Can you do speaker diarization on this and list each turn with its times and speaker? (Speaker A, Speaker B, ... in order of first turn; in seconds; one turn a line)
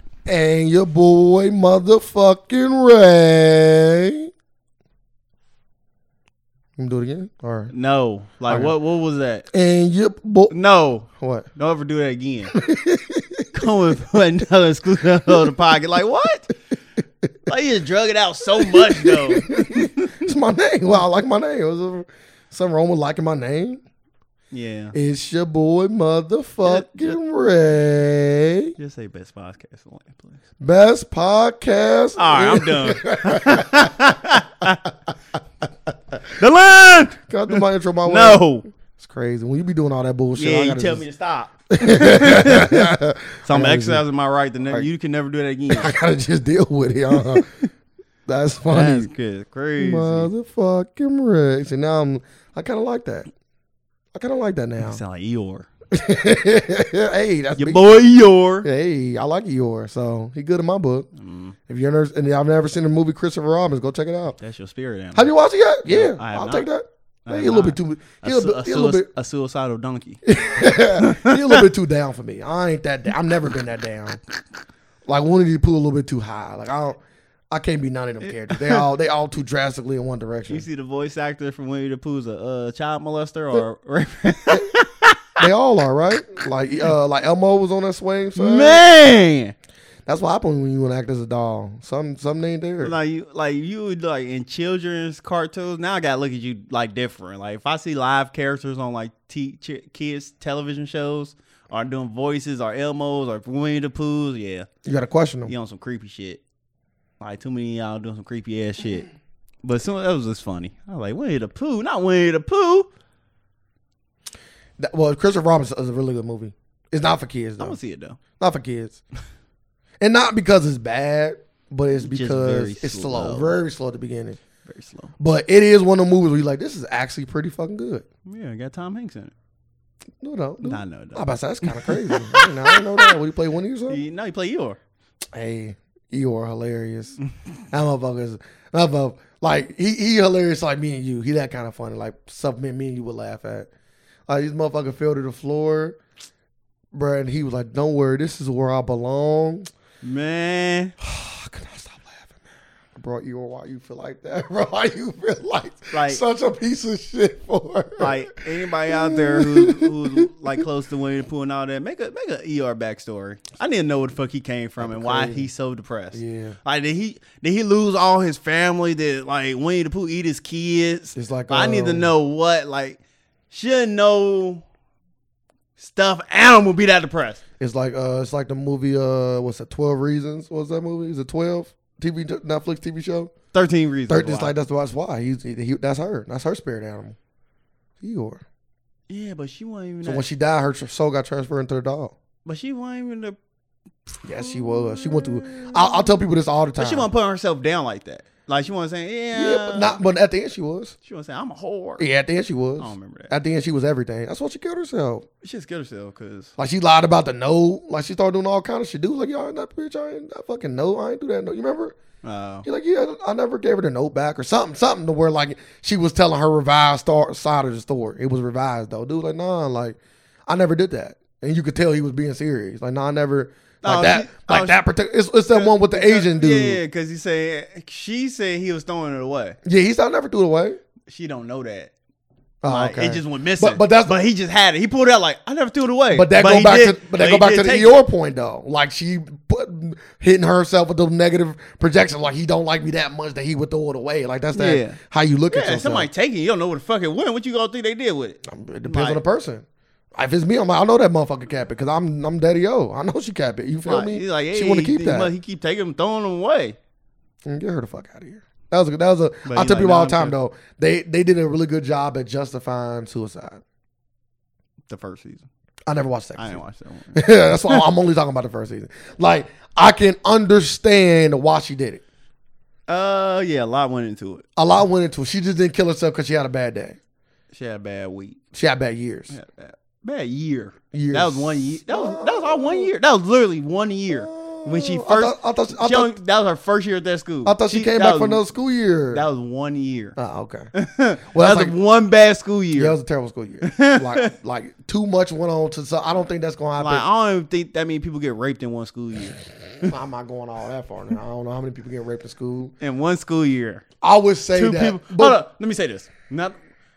Speaker A: 0.2-4.3
Speaker A: 6.8-7.7
Speaker B: 7.7-9.5
Speaker A: 8.5-8.7
Speaker A: 9.5-10.5
Speaker B: 10.5-12.6
Speaker A: 11.2-11.5
Speaker A: 12.5-13.6
Speaker B: 13.5-16.5
Speaker B: 17.5-20.3
Speaker A: 18.6-23.8
Speaker B: 24.5-24.9
Speaker A: 24.9-28.8
Speaker B: 26.6-27.2
Speaker B: 28.8-30.4
Speaker A: 30.6-34.0
Speaker B: 32.1-34.9
Speaker B: 36.2-38.7
Speaker A: 37.2-38.4
Speaker A: 39.0-41.0
Speaker B: 40.4-45.9
Speaker A: 41.7-44.0
Speaker A: 45.7-47.5
Speaker B: 47.1-47.4
Speaker A: 48.2-49.1
Speaker B: 48.7-50.3
Speaker A: 49.8-53.3
Speaker A: 54.1-55.0
Speaker B: 54.8-55.7
Speaker A: 55.9-58.0
Speaker B: 57.6-58.7
Speaker A: 58.6-61.1
Speaker B: 61.2-61.5
Speaker A: 61.7-64.4
Speaker B: 64.4-65.3
Speaker A: 65.1-69.1
Speaker B: 65.8-66.7
Speaker B: 67.2-71.7
Speaker A: 70.2-74.2
Speaker A: 75.0-77.0
Speaker A: 77.5-80.6
Speaker B: 78.5-78.8
Speaker B: 80.5-85.4
Speaker A: 85.4-88.8
Speaker B: 88.3-89.5
Speaker A: 90.0-92.9
Speaker B: 92.8-104.7
Speaker A: 104.8-105.5
Speaker B: 105.5-106.4
Speaker B: 107.2-109.1
Speaker B: 109.6-112.9
Speaker A: 114.8-117.8
Speaker B: 117.6-118.2
Speaker A: 118.4-119.0
Speaker A: 120.0-124.4
Speaker B: 122.0-123.6
Speaker B: 124.7-125.1
Speaker A: 125.2-128.0
Speaker B: 128.2-129.3
Speaker A: 130.2-134.0
Speaker B: 130.6-133.1
Speaker B: 133.9-134.8
Speaker A: 135.3-137.2
Speaker A: 137.7-143.7
Speaker A: 144.3-146.0
Speaker A: 146.9-149.7
Speaker B: 150.0-150.9
Speaker A: 151.0-152.3
Speaker A: 152.9-158.3
Speaker B: 155.9-156.2
Speaker B: 158.0-173.0
Speaker A: 158.8-160.6
Speaker A: 164.8-165.5
Speaker A: 166.1-166.6
Speaker A: 171.1-172.1
Speaker B: 173.5-174.6
Speaker B: 175.8-177.4
Speaker A: 177.6-183.3
Speaker B: 183.5-184.5
Speaker A: 184.1-187.2
Speaker A: 188.0-188.4
Speaker B: 189.1-190.2
Speaker A: 190.0-192.1
Speaker B: 192.4-193.4
Speaker B: 194.1-196.1
Speaker A: 194.2-197.1
Speaker B: 196.8-200.1
Speaker A: 199.3-200.9
Speaker B: 201.0-202.1
Speaker A: 202.0-205.2
Speaker B: 202.8-203.3
Speaker B: 205.4-206.5
Speaker A: 206.6-211.9
Speaker B: 212.2-212.7
Speaker A: 212.6-226.8
Speaker B: 223.8-224.8
Speaker B: 225.5-229.6
Speaker A: 229.6-230.8
Speaker B: 231.1-231.9
Speaker A: 232.6-234.2
Speaker B: 232.7-238.0
Speaker A: 236.1-246.1
Speaker B: 244.5-249.2
Speaker A: 248.4-255.3
Speaker B: 253.8-256.8
Speaker A: 257.4-263.6
Speaker B: 259.4-260.4
Speaker B: 264.9-265.5
Speaker A: 265.9-266.6
Speaker B: 266.4-267.8
Speaker A: 267.1-272.0
Speaker B: 272.9-274.4
Speaker A: 274.6-277.0
Speaker B: 277.5-278.4
Speaker A: 278.5-279.3
Speaker B: 279.3-288.4
Speaker A: 280.9-282.9
Speaker A: 284.1-286.2
Speaker A: 287.4-289.2
Speaker B: 289.1-290.2
Speaker A: 290.2-290.7
Speaker B: 290.7-292.9
Speaker A: 291.3-291.7
Speaker A: 292.8-297.0
Speaker B: 293.6-294.3
Speaker B: 296.8-299.4
Speaker A: 299.8-302.7
Speaker B: 302.8-303.8
Speaker A: 304.0-305.4
Speaker B: 304.5-306.6